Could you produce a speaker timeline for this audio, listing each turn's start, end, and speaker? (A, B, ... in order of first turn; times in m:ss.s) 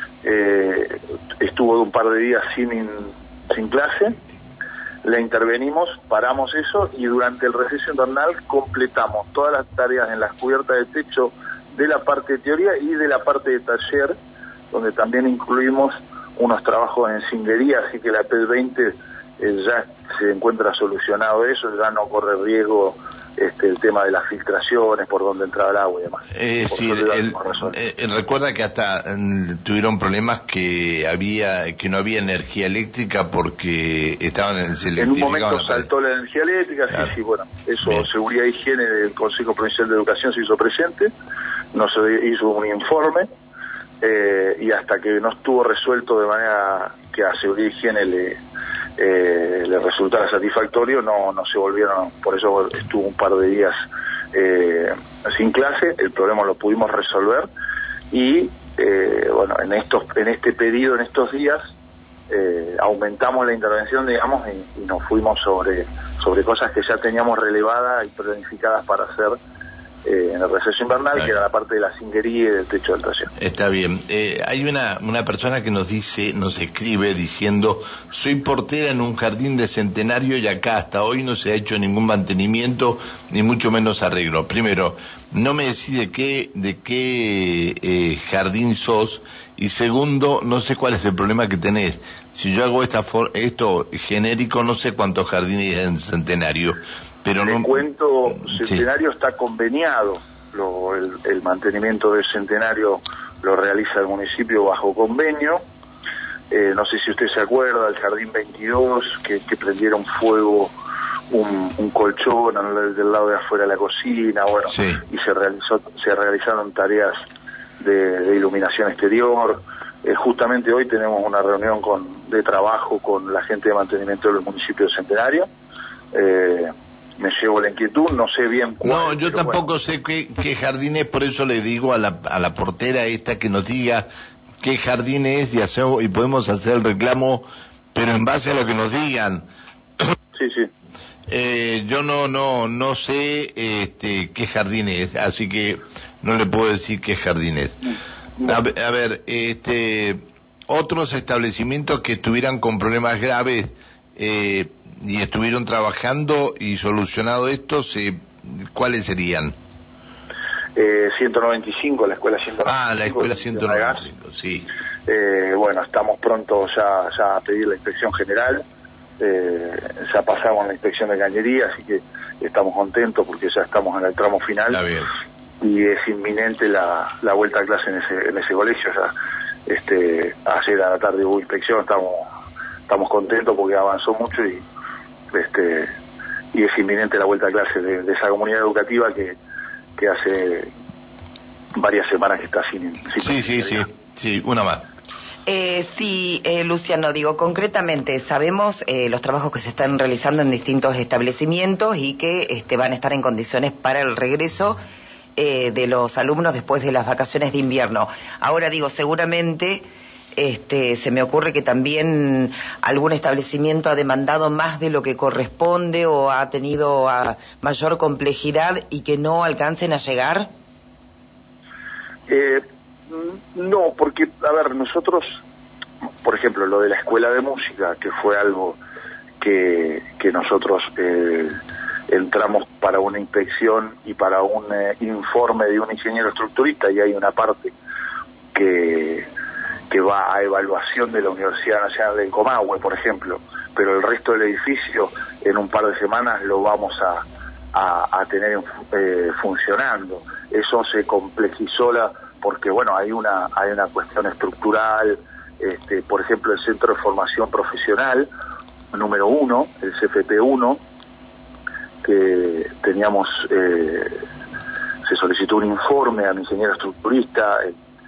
0:00.2-0:04.2 A
0:05.0-0:14.2 A
0:14.7-0:27.8 A
0:26.3-0:35.9 B
0:35.0-0:41.1 A
0:41.7-0:43.3 A
0:44.0-0:48.4 A
0:49.0-0:53.8 A
0:54.3-0:57.5 A
0:58.1-1:01.6 A
1:02.3-1:09.4 A
1:10.0-1:13.3 A
1:13.4-1:37.8 B
1:37.4-1:45.6 A
1:38.4-1:38.8 B
1:46.5-1:50.7 A
1:51.3-1:57.1 A
1:54.7-1:55.0 B
1:57.8-2:05.5 A
2:06.1-2:09.6 A
2:08.8-2:14.1 B
2:14.6-2:19.4 B
2:20.4-2:20.7 A
2:21.3-2:27.9 B
2:28.4-2:39.6 B
2:40.8-2:44.1 A
2:42.6-2:44.7 B
2:45.1-2:48.6 A
2:49.2-2:54.8 A
2:54.7-2:55.1 B
2:55.6-2:59.1 A
2:59.7-3:02.3 A
3:02.9-3:04.6 A
3:05.3-3:05.9 A
3:06.5-3:09.4 A
3:10.0-3:10.7 A
3:11.8-3:13.8 A
3:13.2-3:14.9 B
3:15.5-3:24.8 C
3:25.4-3:29.8 C
3:30.4-3:40.5 C
3:42.3-3:45.4 A
3:46.2-3:48.8 A
3:49.4-3:51.6 A
3:52.1-3:57.7 A
3:58.5-3:59.3 A
3:59.9-4:18.3 A
4:18.9-4:20.8 A
4:22.0-4:24.2 A
4:25.0-4:27.7 A